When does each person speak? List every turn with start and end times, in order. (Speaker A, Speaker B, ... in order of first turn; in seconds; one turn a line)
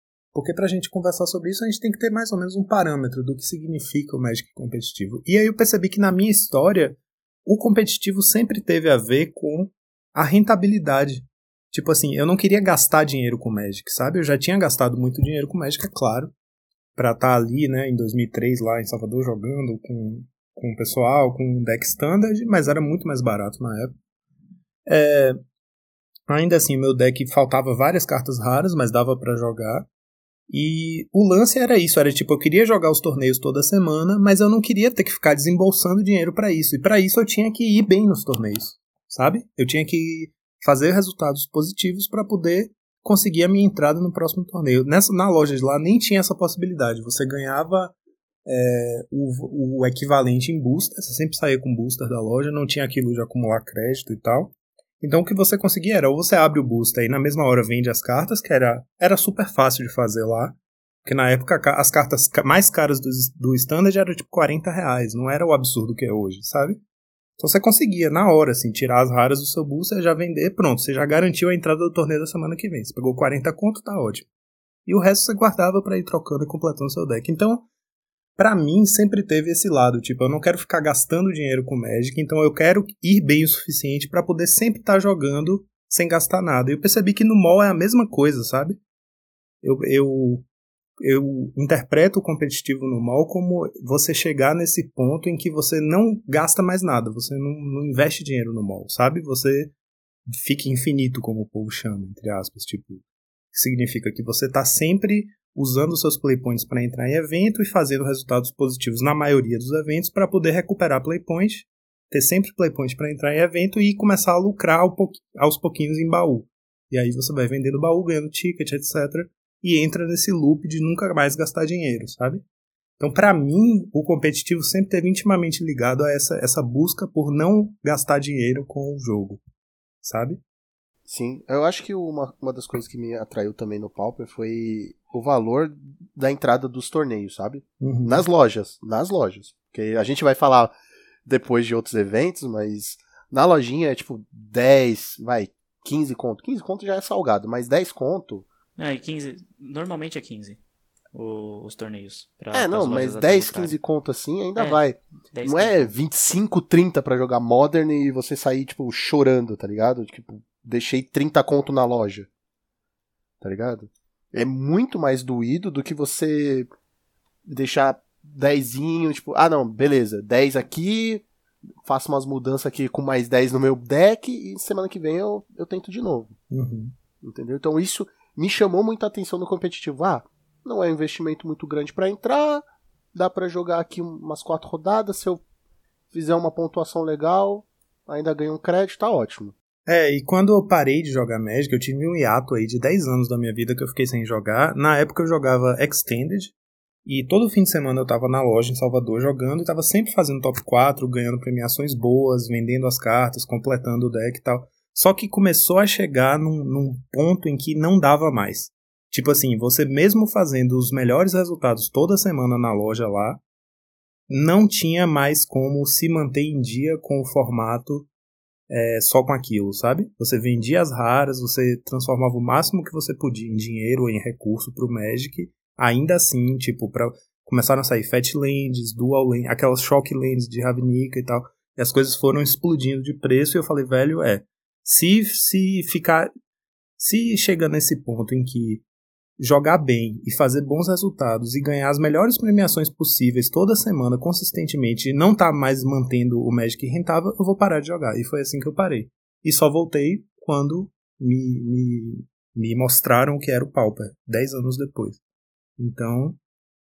Speaker A: 0.3-16.3
Speaker A: 16.9-23.9
Speaker A: 24.9-25.4
Speaker A: 26.3-29.9
Speaker A: 30.5-47.9
Speaker A: 48.5-66.8
Speaker A: 67.4-74.2
Speaker A: 74.8-77.7
Speaker A: 78.4-88.8
Speaker A: 89.6-90.5
Speaker A: 91.0-99.7
Speaker A: 100.3-103.0
Speaker A: 103.5-122.4
Speaker A: 123.0-129.4
Speaker A: 130.0-130.4
Speaker B: 131.1-140.7
Speaker A: 137.8-138.2
Speaker B: 141.2-148.4
Speaker C: 148.8-150.6
Speaker C: 151.1-153.8
Speaker B: 152.5-162.3
Speaker C: 155.3-155.9
Speaker B: 163.4-166.7
Speaker B: 167.4-171.2
Speaker B: 171.8-176.3
Speaker A: 176.5-176.9
Speaker B: 177.2-182.6
Speaker B: 183.1-185.4
Speaker B: 186.1-189.5
Speaker A: 189.9-196.5
Speaker A: 197.1-213.4
Speaker A: 214.3-218.1
Speaker A: 218.7-236.3
Speaker A: 237.0-238.8
Speaker A: 239.4-255.2
Speaker A: 255.8-256.4